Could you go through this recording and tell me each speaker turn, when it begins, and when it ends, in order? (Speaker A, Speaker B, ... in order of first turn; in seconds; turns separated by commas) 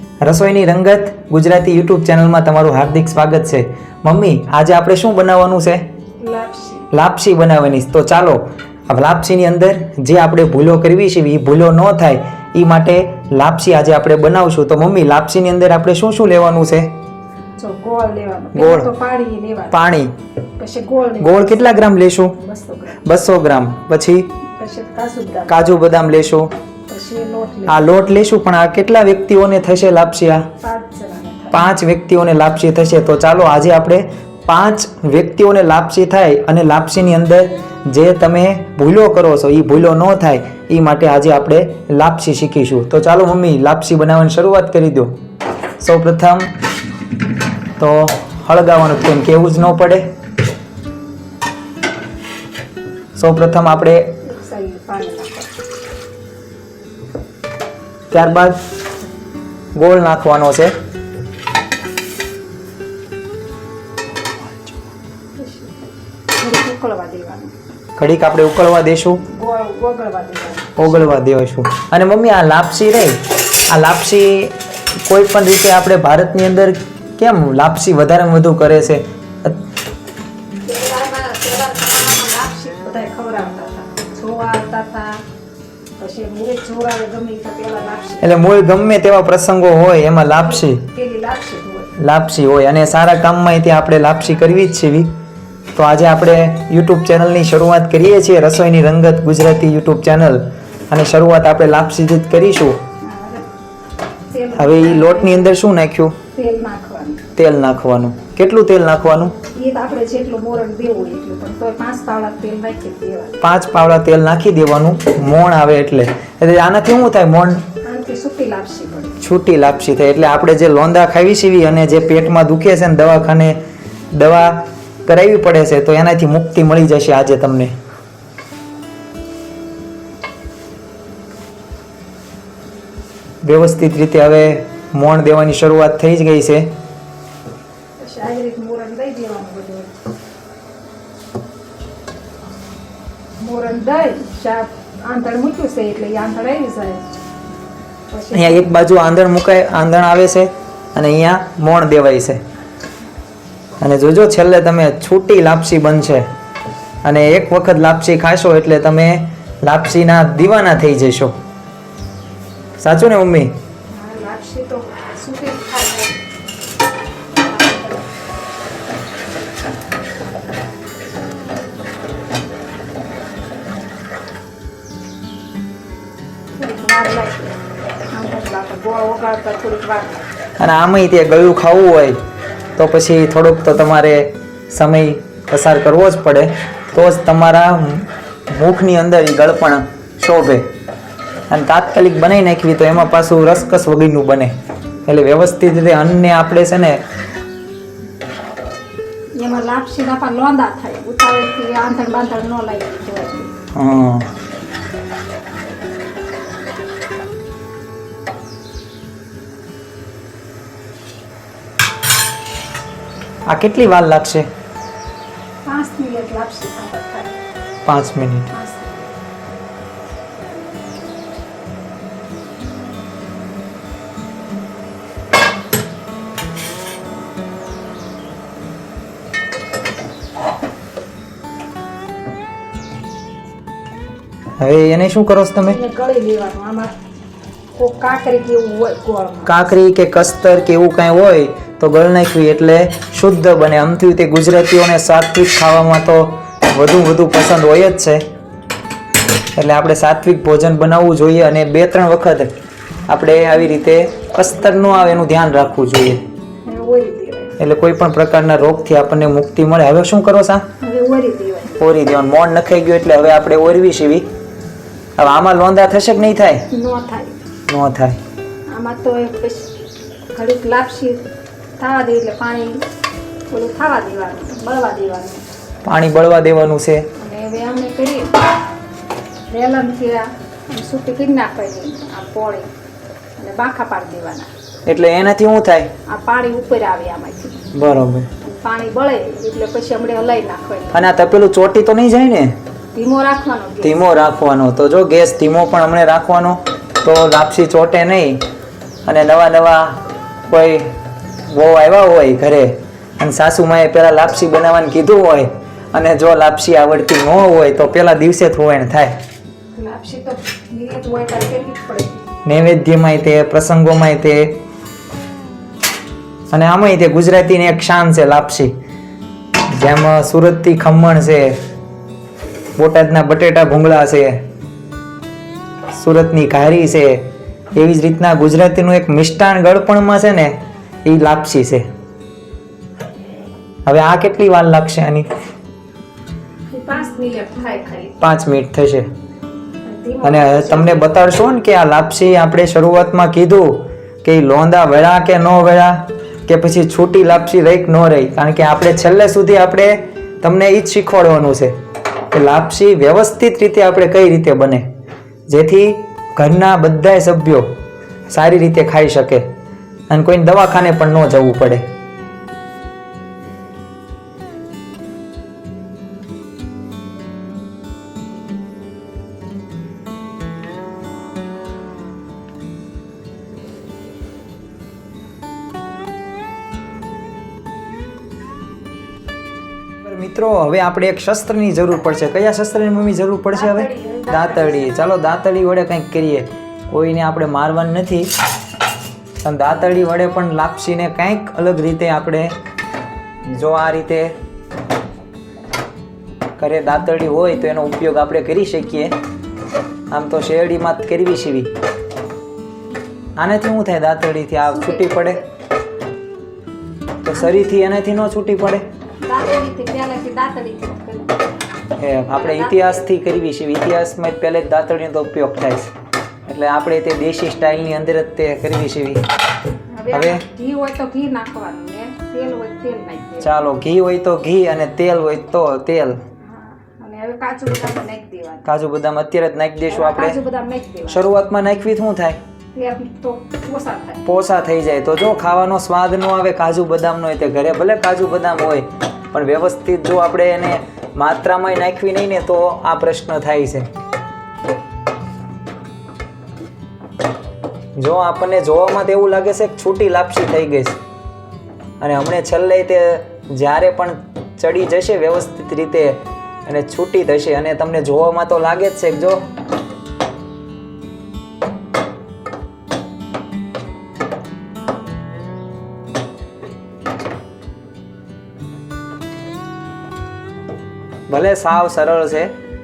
Speaker A: 0.2-5.9, Speaker B: 6.2-6.9, Speaker A: 6.9-16.9, Speaker B: 17.6-19.8, Speaker A: 18.5-18.9, Speaker A: 19.7-20.1, Speaker B: 20.6-21.8, Speaker A: 21.2-22.4, Speaker B: 22.3-23.0, Speaker A: 23.0-24.3, Speaker B: 24.5-25.6, Speaker A: 25.5-26.5, Speaker B: 26.9-27.9, Speaker A: 27.7-30.5, Speaker B: 30.6-31.6, Speaker A: 31.5-45.2, Speaker A: 45.8-46.5, Speaker A: 47.8-50.1, Speaker A: 53.1-54.1, Speaker B: 54.2-55.5, Speaker A: 58.1-58.6, Speaker A: 59.7-60.7, Speaker B: 65.3-65.7, Speaker B: 66.4-67.5, Speaker A: 68.0-69.2, Speaker B: 69.3-71.2, Speaker A: 70.8-79.6, Speaker B: 80.7-85.2, Speaker B: 86.0-88.3, Speaker A: 88.2-90.9, Speaker B: 90.8-91.9, Speaker A: 92.0-95.1, Speaker A: 95.7-102.8, Speaker B: 103.0-103.5, Speaker B: 104.3-105.5, Speaker A: 104.5-106.2, Speaker B: 106.3-107.2, Speaker A: 107.3-109.4, Speaker B: 109.4-113.4, Speaker A: 113.4-117.6, Speaker B: 117.8-119.2, Speaker A: 119.2-123.6, Speaker A: 124.1-127.7, Speaker A: 133.4-136.7, Speaker B: 138.0-140.0, Speaker B: 143.4-147.1, Speaker B: 148.1-148.7, Speaker A: 148.3-152.4, Speaker A: 153.8-156.3, Speaker A: 157.0-161.3, Speaker A: 162.8-163.5, Speaker B: 163.9-166.2, Speaker B: 167.4-168.1, Speaker B: 176.6-177.5, Speaker B: 178.1-180.3, Speaker A: 180.6-182.2, Speaker A: 182.8-190.7, Speaker A: 191.5-194.5, Speaker A: 195.1-197.0, Speaker B: 199.4-203.5, Speaker A: 203.7-204.3, Speaker A: 213.5-214.5, Speaker B: 215.7-217.3, Speaker A: 217.8-218.5, Speaker B: 218.5-219.1, Speaker A: 234.6-235.8, Speaker B: 235.6-236.9, Speaker B: 237.8-239.7, Speaker A: 239.4-248.3, Speaker A: 249.5-252.5, Speaker A: 253.1-256.2, Speaker B: 256.6-257.6, Speaker A: 257.6-260.6, Speaker B: 260.8-261.8, Speaker A: 261.8-264.3, Speaker A: 265.2-266.7, Speaker B: 266.7-267.4, Speaker A: 267.7-268.2, Speaker B: 268.7-269.7, Speaker B: 270.3-271.2, Speaker B: 271.8-272.8, Speaker B: 273.5-275.4, Speaker A: 275.8-277.1, Speaker B: 277.2-278.4, Speaker B: 279.5-282.7, Speaker B: 283.4-284.5, Speaker A: 284.9-285.9, Speaker B: 286.1-287.7, Speaker A: 287.7-288.3, Speaker B: 288.4-291.0, Speaker A: 290.9-292.6, Speaker B: 292.9-294.0, Speaker A: 293.8-298.4, Speaker A: 299.1-300.9, Speaker A: 301.5-309.2, Speaker B: 309.8-312.2, Speaker A: 312.4-314.6, Speaker A: 316.5-318.7, Speaker A: 319.7-321.6, Speaker A: 322.8-324.4, Speaker A: 325.9-331.9, Speaker A: 333.9-335.3, Speaker B: 336.7-338.1, Speaker A: 338.2-339.1, Speaker B: 339.8-341.1, Speaker A: 340.2-351.8, Speaker A: 352.3-354.9, Speaker A: 355.5-357.8, Speaker A: 358.3-359.5, Speaker A: 360.1-361.9, Speaker A: 380.0-388.3, Speaker B: 383.5-385.1, Speaker A: 389.4-392.6, Speaker A: 393.4-394.3, Speaker A: 396.6-399.1, Speaker A: 400.1-401.7, Speaker A: 403.4-405.4, Speaker B: 404.7-405.4, Speaker A: 407.2-408.9, Speaker B: 407.4-407.6, Speaker B: 409.2-411.4, Speaker A: 412.0-415.9, Speaker B: 412.3-413.1, Speaker A: 416.4-419.2, Speaker B: 419.9-423.6, Speaker A: 420.1-420.4, Speaker A: 423.4-426.2, Speaker B: 426.4-428.6, Speaker A: 428.6-430.4, Speaker B: 429.9-431.3, Speaker A: 431.1-432.4, Speaker B: 432.7-434.2, Speaker A: 434.2-443.9, Speaker A: 448.0-451.0, Speaker A: 452.0-459.5, Speaker A: 471.3-472.5